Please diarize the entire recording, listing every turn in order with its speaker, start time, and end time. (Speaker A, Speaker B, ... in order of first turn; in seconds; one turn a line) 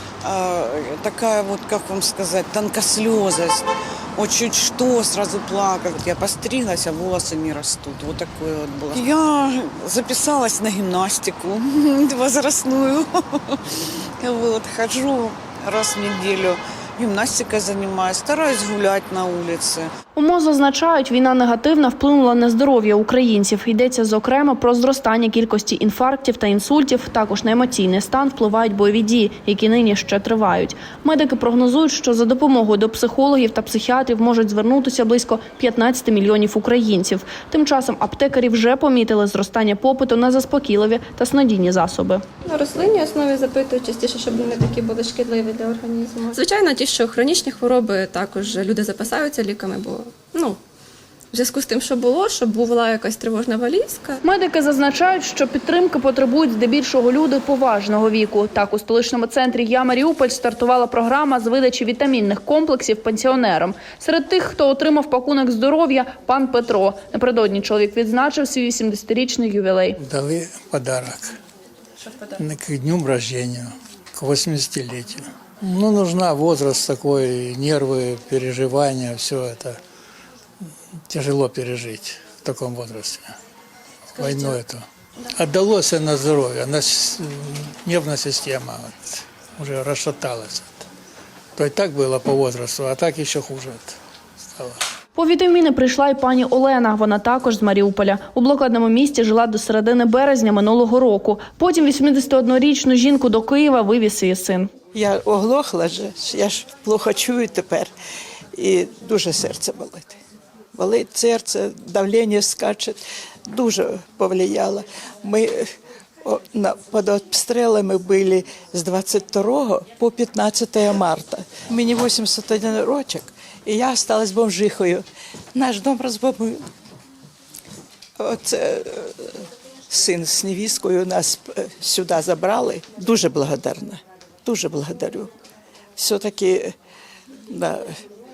Speaker A: 0.2-3.7
Speaker A: 4.2-13.6
Speaker A: 14.2-19.9
Speaker B: 20.1-42.2
Speaker C: 42.5-50.6
Speaker C: 51.3-54.2
Speaker B: 54.2-70.0
Speaker D: 70.0-71.3
Speaker D: 72.4-79.8
Speaker D: 81.1-83.3
Speaker D: 84.2-84.8
Speaker D: 85.3-90.9
Speaker D: 91.6-94.0
Speaker B: 95.2-104.7
Speaker E: 104.9-107.9
Speaker E: 108.6-110.2
Speaker E: 110.8-115.7
Speaker E: 116.2-126.7
Speaker E: 128.2-135.3
Speaker E: 136.0-136.7
Speaker E: 137.5-138.0